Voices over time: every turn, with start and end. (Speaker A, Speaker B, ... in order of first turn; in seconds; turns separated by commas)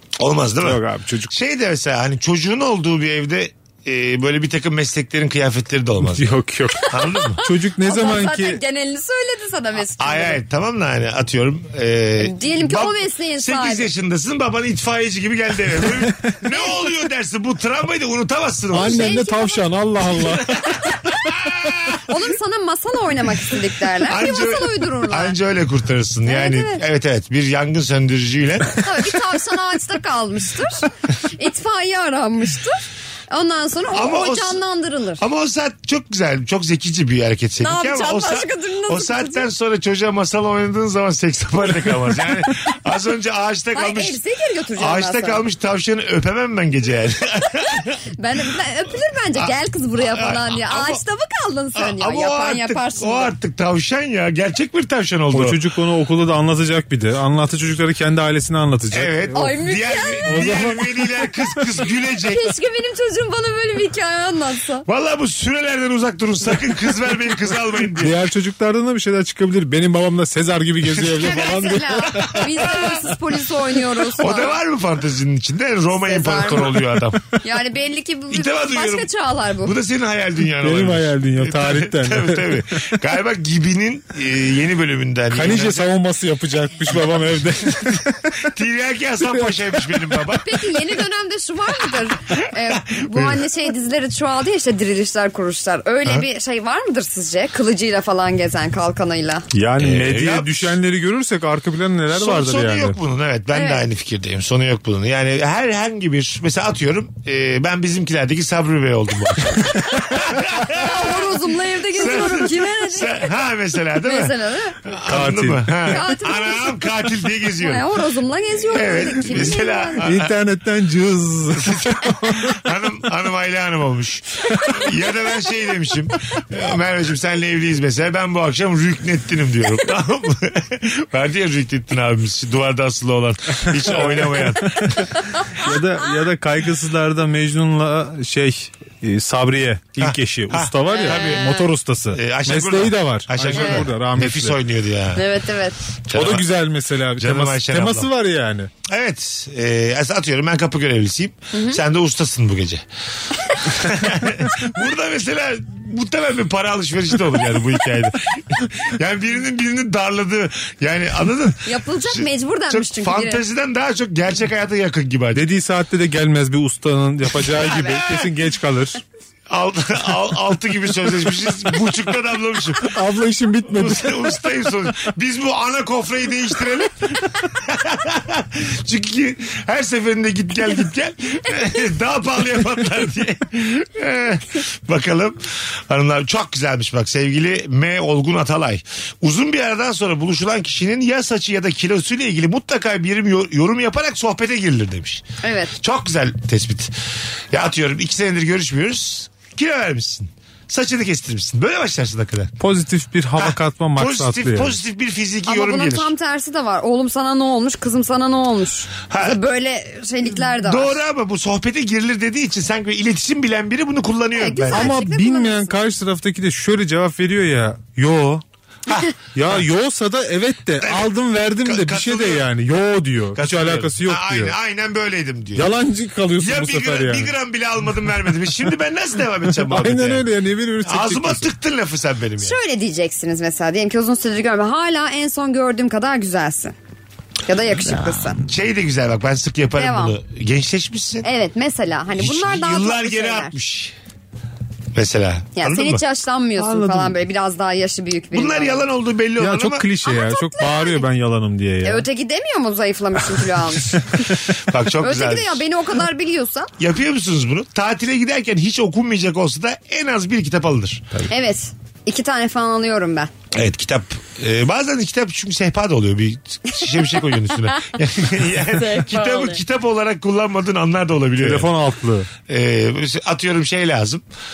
Speaker A: 0.2-6.2, Speaker B: 0.6-1.3, Speaker B: 6.0-8.6, Speaker C: 6.7-10.4, Speaker A: 6.9-7.4, Speaker A: 10.0-19.2, Speaker C: 12.2-13.9, Speaker B: 18.7-20.8, Speaker C: 18.8-19.6, Speaker A: 20.1-22.0, Speaker C: 22.1-25.4, Speaker A: 24.1-29.2, Speaker C: 26.2-26.8, Speaker C: 28.8-32.8, Speaker C: 33.3-35.2, Speaker A: 33.9-34.6, Speaker A: 35.2-44.2, Speaker C: 37.6-39.5, Speaker C: 43.7-45.4, Speaker A: 44.8-48.0, Speaker C: 48.1-53.3, Speaker A: 49.4-51.0, Speaker A: 51.8-55.6, Speaker B: 55.3-59.5, Speaker A: 58.9-62.5, Speaker C: 59.3-60.6, Speaker B: 60.2-61.1, Speaker C: 62.2-64.8, Speaker A: 64.8-68.2, Speaker B: 67.9-73.0, Speaker A: 70.8-73.0, Speaker C: 71.1-74.6, Speaker A: 74.0-77.3, Speaker C: 76.0-79.8, Speaker A: 78.3-79.1, Speaker A: 79.6-85.9, Speaker B: 80.6-82.6, Speaker B: 85.3-88.4, Speaker A: 88.4-90.7, Speaker B: 89.2-90.2, Speaker C: 90.3-99.4, Speaker A: 92.7-93.4, Speaker B: 99.5-103.0, Speaker A: 99.8-100.8, Speaker A: 102.1-111.3, Speaker C: 103.5-103.8, Speaker C: 110.7-113.3, Speaker A: 111.9-117.8, Speaker C: 114.0-114.8, Speaker B: 115.1-116.0, Speaker C: 115.9-116.8, Speaker C: 117.6-120.0, Speaker A: 118.7-120.3, Speaker B: 120.0-122.6, Speaker A: 121.5-135.1, Speaker B: 133.9-144.6, Speaker A: 140.0-141.5, Speaker C: 140.9-141.6, Speaker A: 142.1-145.2, Speaker C: 143.5-143.9, Speaker C: 145.1-145.8, Speaker A: 146.1-146.5, Speaker B: 146.1-148.7, Speaker A: 147.2-148.1, Speaker A: 148.8-152.8, Speaker C: 151.5-151.8, Speaker A: 153.6-165.4, Speaker C: 161.7-163.4, Speaker B: 165.3-169.0, Speaker C: 167.6-167.9, Speaker A: 167.6-168.3, Speaker A: 169.5-172.9, Speaker B: 172.8-174.3, Speaker A: 173.7-196.9, Speaker C: 195.4-195.7, Speaker A: 197.5-202.5, Speaker B: 202.6-204.8, Speaker A: 203.4-206.1, Speaker C: 205.4-211.0, Speaker A: 209.1-209.4, Speaker A: 210.6-214.9, Speaker C: 214.4-215.7, Speaker B: 214.7-218.4, Speaker A: 218.9-219.6, Speaker B: 219.3-224.5, Speaker A: 220.8-222.4, Speaker A: 223.3-225.7, Speaker B: 225.6-227.3, Speaker A: 226.4-230.3, Speaker B: 229.6-231.5, Speaker A: 230.8-232.6, Speaker C: 232.4-236.7, Speaker C: 237.5-238.4, Speaker A: 238.4-241.3, Speaker C: 239.8-240.2, Speaker C: 241.2-243.6, Speaker A: 242.1-243.9, Speaker A: 244.9-246.0, Speaker C: 245.6-248.8, Speaker B: 246.6-247.1, Speaker A: 248.3-249.8, Speaker B: 249.4-252.1, Speaker C: 250.0-251.0, Speaker C: 251.8-254.2, Speaker A: 254.7-255.6, Speaker C: 255.0-256.7, Speaker A: 256.8-261.1, Speaker C: 261.3-263.3, Speaker A: 263.5-271.7, Speaker C: 268.7-269.6, Speaker B: 271.4-272.3, Speaker A: 272.5-274.2